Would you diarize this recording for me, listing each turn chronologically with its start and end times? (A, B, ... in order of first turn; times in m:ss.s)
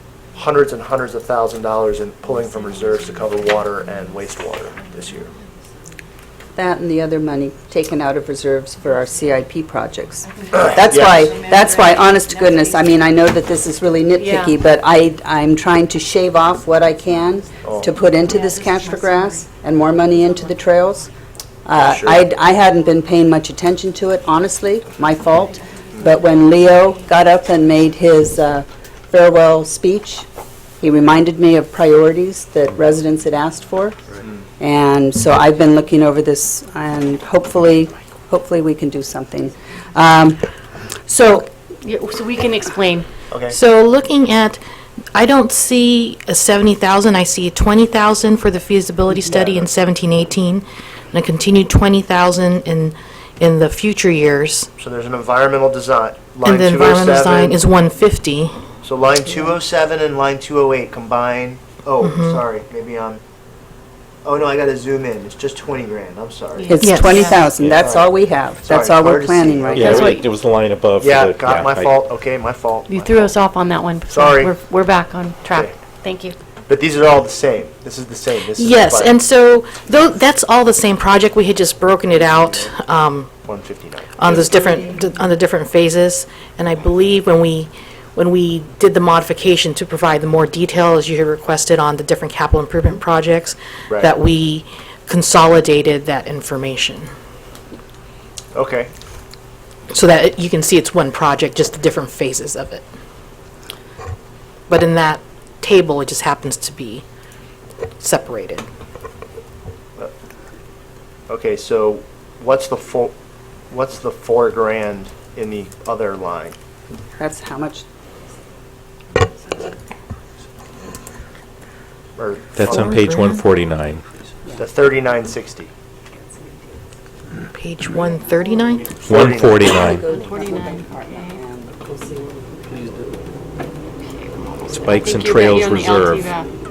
0:00.3-0:05.3 A
0:06.6-0:21.1 B
0:10.2-0:13.0 C
0:10.5-0:11.3 A
0:14.2-0:14.6 C
0:17.6-0:18.0 A
0:17.9-0:19.5 C
0:20.2-0:20.4 C
0:21.6-0:30.3 B
0:21.8-0:22.3 A
0:30.8-0:34.0 B
0:34.6-0:40.5 B
0:41.0-0:41.5 B
0:41.8-0:43.1 C
0:43.3-0:43.6 A
0:43.5-0:44.6 D
0:45.1-0:54.7 D
0:49.3-0:49.7 A
0:54.8-0:57.6 A
0:56.4-0:58.6 D
0:58.8-1:03.2 A
1:02.0-1:02.4 D
1:04.2-1:06.8 A
1:06.6-1:07.5 C
1:06.7-1:10.0 B
1:06.8-1:07.4 D
1:07.7-1:08.1 A
1:08.6-1:10.2 A
1:09.8-1:10.2 C
1:09.8-1:11.9 E
1:11.0-1:13.4 A
1:12.9-1:16.4 C
1:14.1-1:14.6 A
1:16.7-1:19.2 A
1:18.6-1:23.3 D
1:22.3-1:22.7 A
1:23.4-1:24.5 A
1:24.2-1:37.1 D
1:38.5-1:38.9 A
1:39.9-1:42.8 D
1:44.7-1:47.0 D
1:48.0-1:48.6 D
1:51.3-1:53.1 A
1:53.7-1:56.6 A
1:57.2-1:57.8 B
2:02.2-2:02.9 A
2:02.6-2:04.0 E
2:02.6-2:03.4 D
2:04.6-2:05.7 A
2:07.5-2:09.0 D
2:09.0-2:09.9 A
2:09.1-2:10.1 E
2:09.6-2:12.2 B
2:09.8-2:11.4 C
2:14.2-2:16.5 C
2:14.7-2:16.3 E